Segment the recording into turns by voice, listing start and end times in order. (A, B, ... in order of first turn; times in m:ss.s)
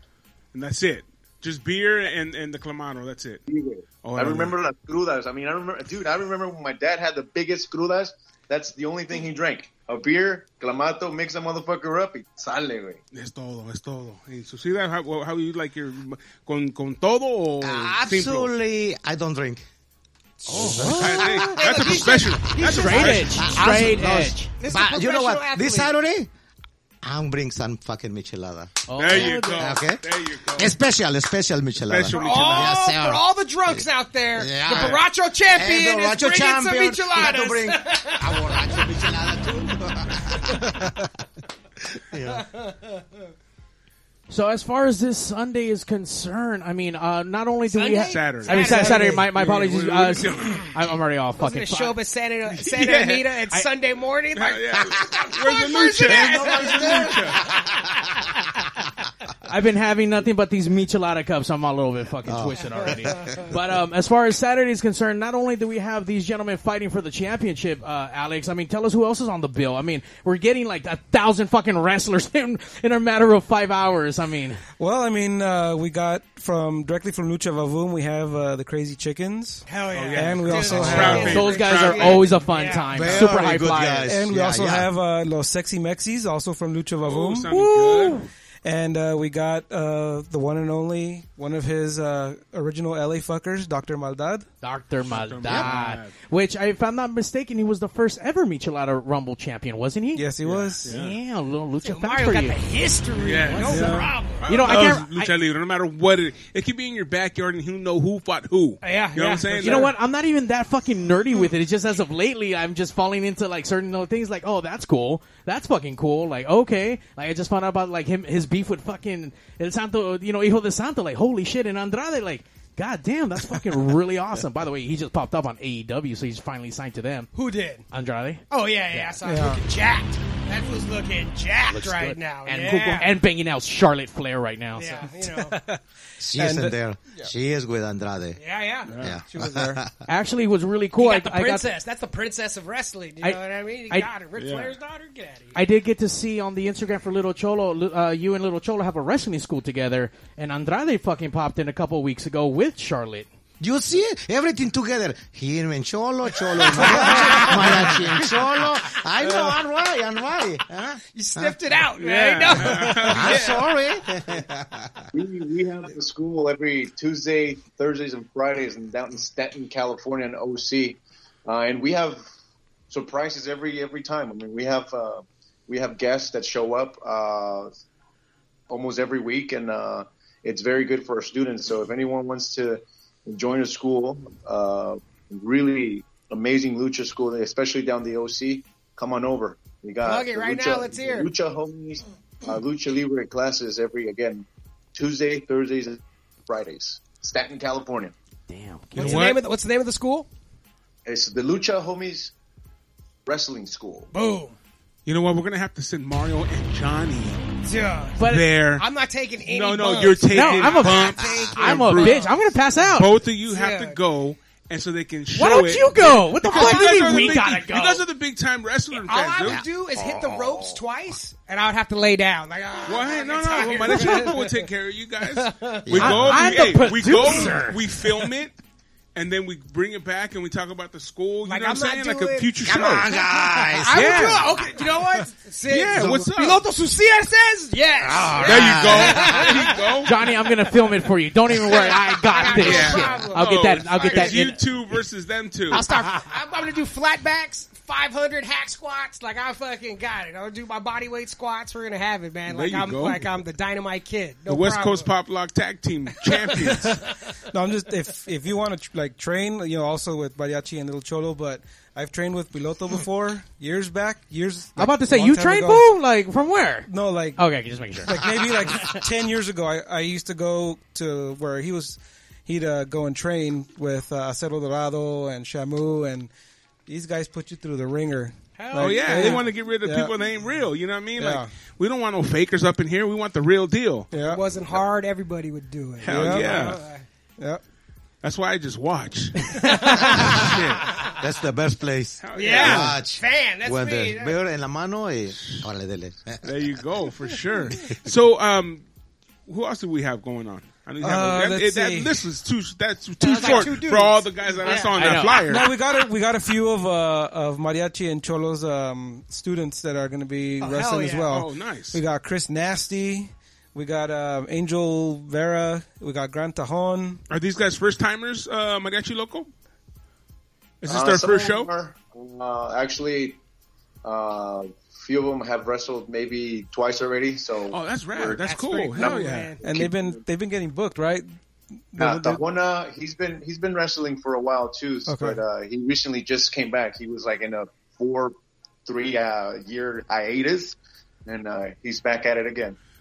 0:00.5-0:03.4 A
0:03.5-0:13.0 B
0:04.0-0:04.5 A
0:13.1-0:18.5 A
0:17.6-0:19.6 C
0:20.4-0:26.0 D
0:20.5-0:21.9 C
0:20.5-0:21.4 E
0:20.6-0:23.5 A
0:22.5-0:24.5 E
0:22.8-0:26.3 C
0:27.0-0:41.1 C
0:28.9-0:29.7 E
0:29.0-0:30.8 A
0:31.9-0:32.8 A
0:32.1-0:38.6 D
0:34.7-0:35.0 A
0:41.8-0:42.5 C
0:44.3-0:52.0 E
0:47.7-0:49.3 D
0:48.1-0:50.8 A
0:51.4-0:57.2 D
0:52.6-0:53.3 A
0:54.3-0:57.4 A
0:56.0-0:58.0 C
0:59.4-1:14.6 E
1:02.2-1:03.5 C
1:14.8-1:21.5 F
1:19.7-1:23.2 D
1:19.9-1:22.4 A
1:21.0-1:24.2 E
1:22.9-1:24.9 C
1:24.1-1:27.7 F
1:27.0-1:28.2 A
1:27.5-1:28.3 E
1:28.6-1:34.5 F
1:34.6-1:40.3 E
1:35.1-1:36.1 A
1:40.2-1:40.9 F
1:40.4-1:41.2 A
1:40.9-1:42.6 E
1:41.8-1:44.8 D
1:43.2-1:49.9 A
1:43.5-1:45.3 E
1:43.7-1:44.1 F
1:48.8-1:50.0 D
1:49.6-2:07.3 E
2:07.3-2:07.8 D
2:07.9-2:09.1 E
2:08.5-2:13.2 D
2:09.2-2:09.6 F
2:11.7-2:15.1 E
2:14.8-2:15.6 D
2:15.4-2:15.8 F
2:16.2-2:19.9 C
2:16.3-2:17.3 F
2:18.4-2:18.9 D
2:18.9-2:19.2 A
2:19.3-2:19.8 F
2:20.1-2:21.7 E
2:21.0-2:25.6 D
2:24.4-2:24.7 A
2:25.6-2:33.3 E
2:33.6-2:41.6 C
2:41.2-2:43.2 D
2:42.0-2:43.7 A
2:43.1-2:45.1 C
2:45.1-2:52.2 B
2:52.9-2:57.7 B
2:58.7-3:18.1 B
3:10.0-3:11.3 D
3:18.5-3:19.3 E
3:19.0-3:20.3 D
3:19.0-3:19.4 A
3:21.0-3:22.3 B
3:23.2-3:24.1 B
3:24.1-3:24.6 D
3:25.1-3:27.5 A
3:27.6-3:32.4 D
3:28.2-3:28.5 E
3:28.3-3:28.9 A
3:29.5-3:32.3 A
3:30.3-3:33.1 E
3:32.9-3:39.6 A
3:33.5-3:34.0 D
3:35.4-3:38.0 E
3:39.0-3:44.7 D
3:39.5-3:40.7 C
3:42.9-3:48.6 A
3:45.3-3:45.9 D
3:45.9-3:46.4 C
3:46.0-3:47.8 E
3:49.2-3:53.1 A
3:51.4-4:00.1 D
3:52.6-3:54.3 C
3:53.9-3:54.6 A
3:55.7-3:56.6 A
3:58.0-3:59.4 C
3:58.4-4:00.2 A
4:00.0-4:04.6 E
4:01.5-4:04.5 D
4:02.4-4:05.9 A
4:05.7-4:15.1 D
4:12.5-4:13.3 A
4:14.5-4:17.0 A
4:17.5-4:25.9 F
4:24.8-4:29.0 E
4:26.9-4:27.4 F
4:28.0-4:36.3 F
4:36.9-4:40.1 F
4:38.6-4:39.5 D
4:38.7-4:44.1 A
4:41.2-4:41.5 F
4:44.1-4:44.4 F
4:44.2-4:47.0 D
4:46.0-4:46.8 A
4:46.1-4:46.8 F
4:48.2-4:51.0 A
4:49.5-4:51.2 D
4:50.1-4:50.6 C
4:51.1-4:56.5 C
4:52.2-4:53.0 A
4:52.4-4:54.4 D
4:56.4-4:58.8 A
4:59.5-5:05.7 A
5:01.0-5:02.1 F
5:03.2-5:05.2 D
5:04.9-5:05.5 E
5:05.5-5:17.2 F
5:10.6-5:11.4 D
5:11.3-5:12.0 A
5:17.3-5:19.5 A
5:20.8-5:21.7 A
5:20.9-5:23.4 B
5:24.0-5:30.2 B
5:27.7-5:29.6 A
5:28.4-5:29.8 D
5:29.6-5:31.3 F
5:31.9-5:32.4 F
5:32.0-5:38.4 B
5:35.1-5:35.4 F
5:38.9-5:42.8 B